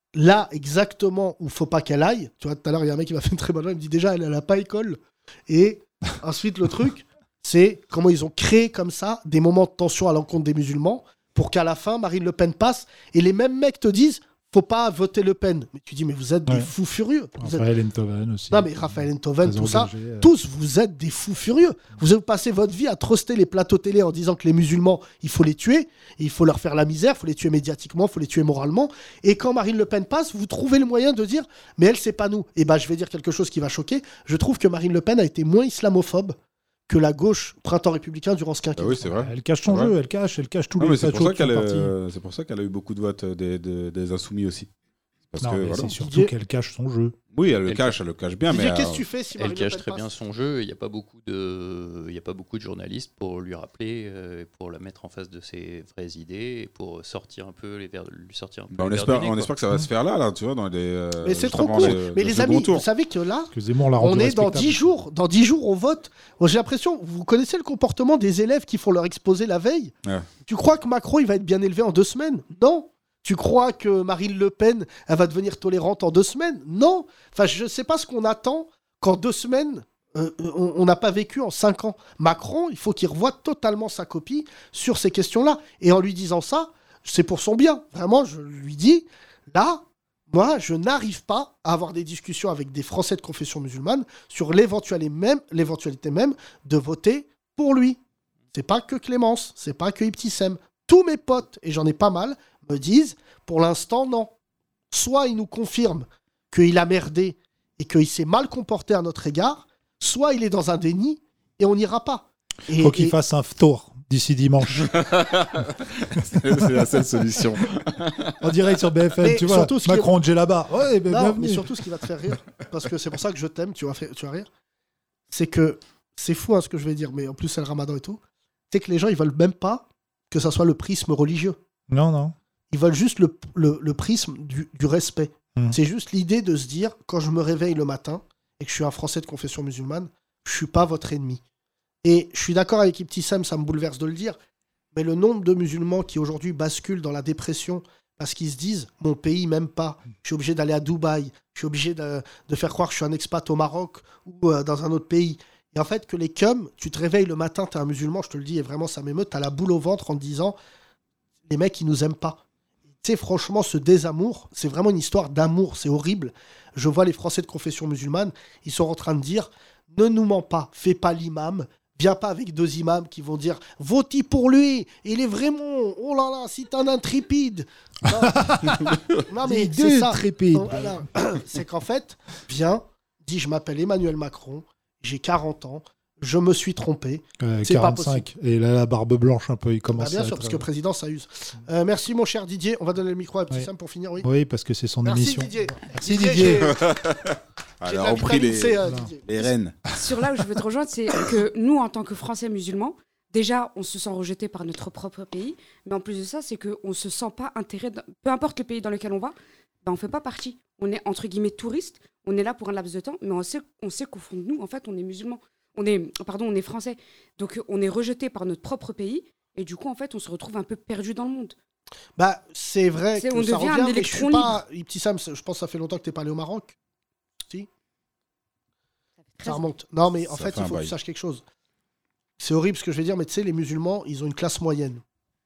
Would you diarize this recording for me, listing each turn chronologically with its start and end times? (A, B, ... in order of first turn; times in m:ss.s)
0:00.2-0:17.7 A
0:17.4-0:20.3 B
0:18.5-0:36.4 A
0:36.9-0:39.1 A
0:38.8-0:40.0 C
0:39.2-0:41.9 B
0:40.8-0:44.7 C
0:45.3-0:46.0 C
0:45.4-0:47.2 B
0:45.9-0:46.3 A
0:47.3-0:49.0 C
0:47.7-0:48.0 D
0:48.5-0:50.1 A
0:49.4-0:59.5 D
0:58.7-1:02.9 C
1:01.2-1:09.9 A
1:03.5-1:05.0 B
1:10.4-1:38.0 A
1:38.5-1:44.3 A
1:44.9-1:53.2 A
1:52.8-1:54.9 B
1:54.7-1:58.4 C
1:58.4-2:01.7 B
1:59.2-2:00.1 A
2:01.1-2:04.5 A
2:05.3-2:08.2 A
2:08.7-2:11.6 A
2:11.9-2:12.4 B
2:12.7-2:21.4 A
2:22.0-2:24.4 A
2:24.9-2:40.6 A
2:41.5-2:42.4 A
2:43.0-3:08.2 A
2:58.2-2:58.9 B
2:59.4-3:01.0 B
3:07.4-3:10.7 B
3:10.0-3:14.3 A
3:14.2-3:16.7 B
3:15.0-3:16.8 A
3:16.6-3:19.8 C
3:17.8-3:19.5 A
3:19.9-3:41.6 E
3:42.2-3:46.8 A
3:43.2-3:44.6 E
3:49.3-3:49.7 E
3:49.4-3:51.4 A
3:50.2-3:51.0 C
3:52.4-3:55.0 A